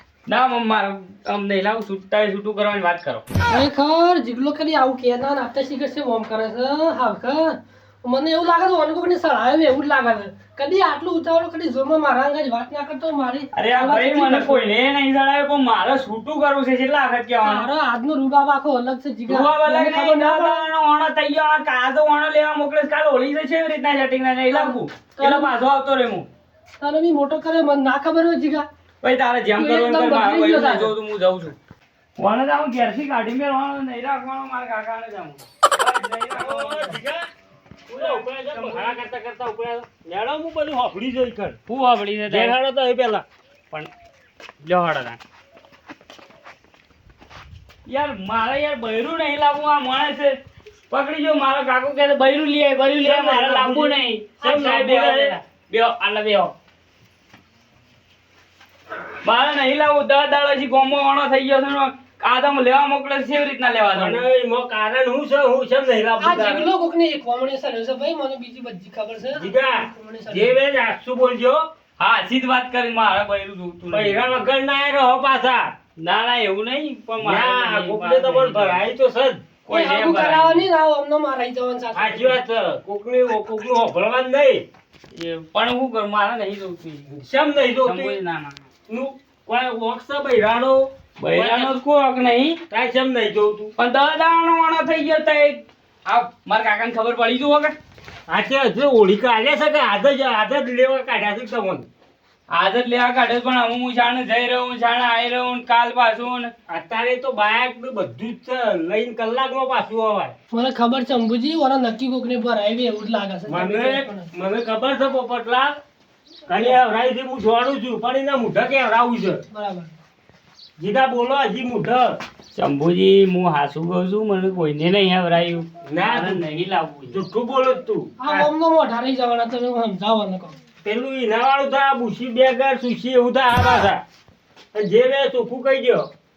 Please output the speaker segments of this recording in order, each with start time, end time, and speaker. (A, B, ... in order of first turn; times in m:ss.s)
0:00.3-0:03.2 A
0:03.5-0:14.6 B
0:13.5-0:17.7 A
0:17.4-0:20.6 B
0:19.3-0:26.3 A
0:24.5-0:25.5 B
0:26.8-0:28.7 B
0:29.0-0:31.6 A
0:29.6-0:30.9 B
0:32.2-0:37.0 A
0:36.3-0:37.3 C
0:37.9-0:41.6 C
0:37.9-0:39.0 A
0:41.7-0:42.6 A
0:42.3-0:43.2 C
0:44.6-0:45.2 A
0:47.9-0:50.4 A
0:50.9-0:56.5 A
0:53.0-0:55.4 C
0:59.2-1:04.2 A
1:03.9-1:06.7 C
1:06.2-1:10.6 B
1:09.4-1:11.6 C
1:12.0-1:14.4 A
1:13.9-1:15.7 C
1:16.0-1:18.8 A
1:17.2-1:19.4 C
1:19.6-1:20.7 A
1:19.7-1:22.4 B
1:21.9-1:24.6 C
1:25.1-1:27.1 A
1:27.1-1:28.2 C
1:27.8-1:28.7 A
1:28.9-1:31.8 C
1:31.2-1:32.6 A
1:32.7-1:33.7 C
1:33.8-1:37.8 A
1:38.3-1:41.9 C
1:42.5-1:46.5 A
1:46.7-1:50.3 C
1:50.5-1:54.3 B
1:53.5-1:55.8 C
1:56.5-1:59.4 C
1:59.5-1:59.9 B
2:00.8-2:02.2 C
2:02.6-2:07.2 A
2:05.9-2:06.4 C
2:07.1-2:08.5 C
2:08.2-2:10.6 B
2:10.8-2:14.0 C
2:14.7-2:16.1 C